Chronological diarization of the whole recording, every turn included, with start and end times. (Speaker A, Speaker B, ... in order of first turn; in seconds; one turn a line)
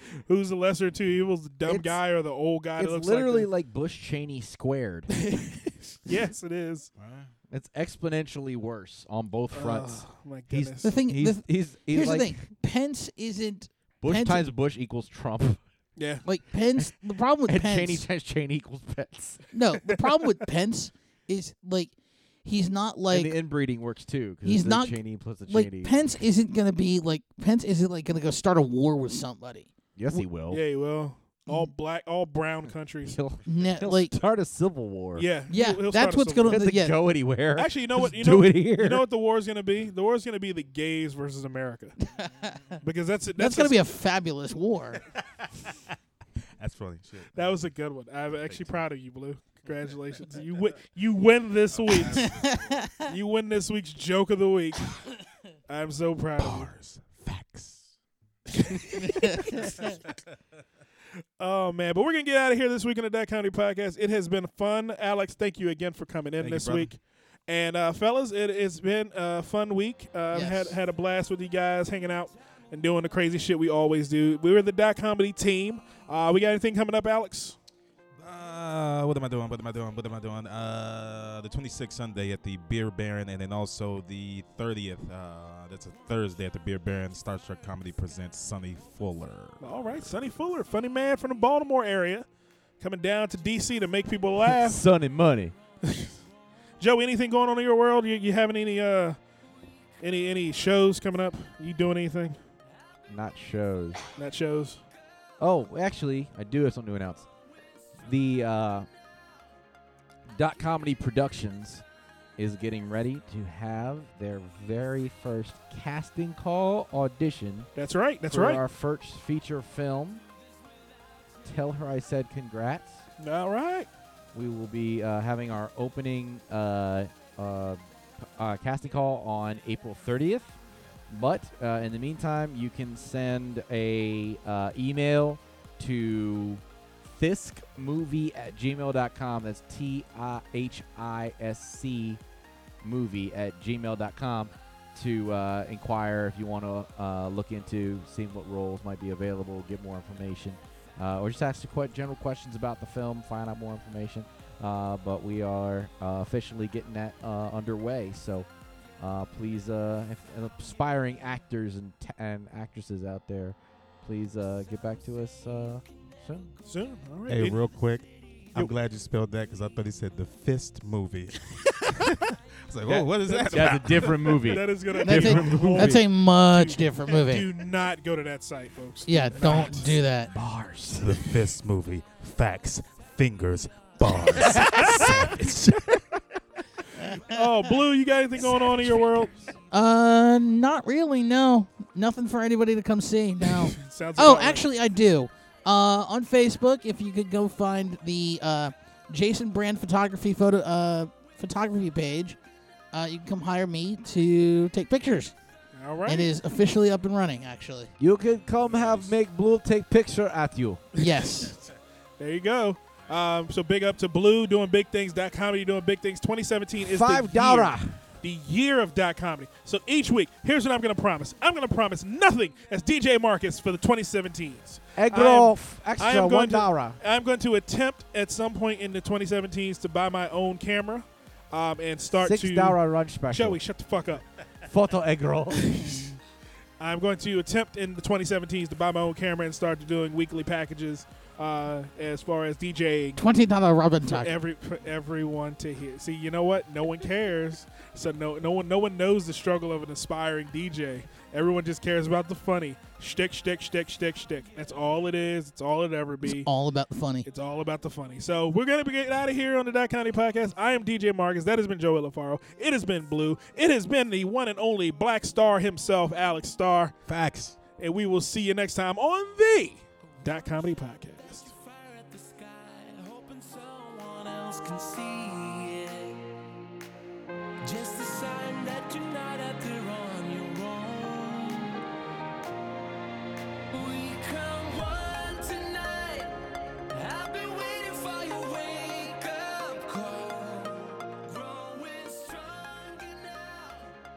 Speaker A: 0.3-3.5
Speaker B: 1.6-2.0
Speaker B: 2.8-5.2
Speaker A: 5.2-6.9
Speaker C: 7.0-7.3
Speaker B: 7.5-12.4
Speaker A: 9.5-10.9
Speaker D: 10.8-14.5
Speaker B: 14.0-15.6
Speaker A: 16.0-16.2
Speaker D: 16.2-18.1
Speaker B: 17.4-19.4
Speaker D: 19.5-21.9
Speaker D: 22.4-23.3
Speaker B: 23.1-26.0
Speaker D: 24.4-30.2
Speaker B: 29.9-30.6
Speaker A: 30.5-33.2
Speaker B: 33.0-35.3
Speaker D: 33.5-34.1
Speaker A: 35.1-36.6
Speaker D: 35.5-37.0
Speaker B: 36.5-39.0
Speaker A: 37.5-42.0
Speaker D: 42.1-42.6
Speaker A: 42.8-43.8
Speaker D: 43.4-45.0
Speaker C: 46.6-47.7
Speaker A: 47.3-52.3
Speaker C: 48.4-48.8
Speaker C: 51.7-52.9
Speaker D: 52.2-53.0
Speaker A: 53.1-55.0
Speaker A: 55.7-56.7
Speaker C: 56.4-57.9
Speaker C: 58.6-60.1
Speaker A: 58.6-59.1
Speaker D: 59.4-59.7
Speaker A: 61.4-77.6
Speaker C: 66.4-66.9
Speaker D: 70.3-70.7
Speaker C: 78.2-90.1
Speaker A: 89.6-92.2
Speaker A: 92.8-94.8
Speaker B: 94.5-95.5
Speaker A: 95.8-96.1
Speaker A: 96.8-99.2
Speaker A: 100.0-102.4
Speaker B: 103.1-104.0
Speaker A: 104.2-104.8
Speaker B: 105.4-107.3
Speaker B: 108.0-108.9
Speaker B: 110.3-111.8
Speaker B: 112.4-117.7
Speaker A: 117.8-118.6
Speaker B: 118.3-120.2
Speaker B: 121.4-123.0
Speaker A: 123.2-123.9
Speaker B: 124.3-130.6
Speaker B: 131.1-142.2
Speaker B: 142.8-158.5
Speaker B: 159.0-166.5
Speaker A: 166.7-167.6
Speaker C: 167.3-174.5
Speaker A: 172.8-180.0
Speaker B: 173.3-176.0
Speaker D: 175.0-177.5
Speaker D: 179.1-180.3
Speaker B: 180.3-181.3
Speaker C: 180.9-186.0
Speaker A: 184.5-185.3
Speaker A: 187.1-189.3
Speaker D: 189.7-202.4
Speaker A: 193.4-194.6
Speaker D: 202.9-205.3
Speaker A: 205.7-206.3
Speaker D: 206.1-207.9
Speaker B: 208.0-210.8
Speaker C: 208.6-209.1
Speaker D: 211.0-211.5
Speaker A: 211.0-211.6
Speaker A: 212.2-234.2
Speaker B: 216.8-218.0
Speaker B: 224.9-227.0
Speaker B: 232.2-233.6
Speaker B: 234.6-235.9
Speaker A: 235.6-236.1
Speaker A: 236.8-243.2
Speaker D: 243.2-244.3
Speaker A: 244.0-256.5
Speaker D: 256.2-257.3
Speaker A: 257.2-266.9
Speaker C: 267.1-267.6
Speaker A: 267.8-271.5
Speaker E: 270.2-270.6
Speaker E: 271.2-276.2
Speaker E: 277.6-281.8
Speaker E: 283.7-286.4
Speaker E: 286.9-294.0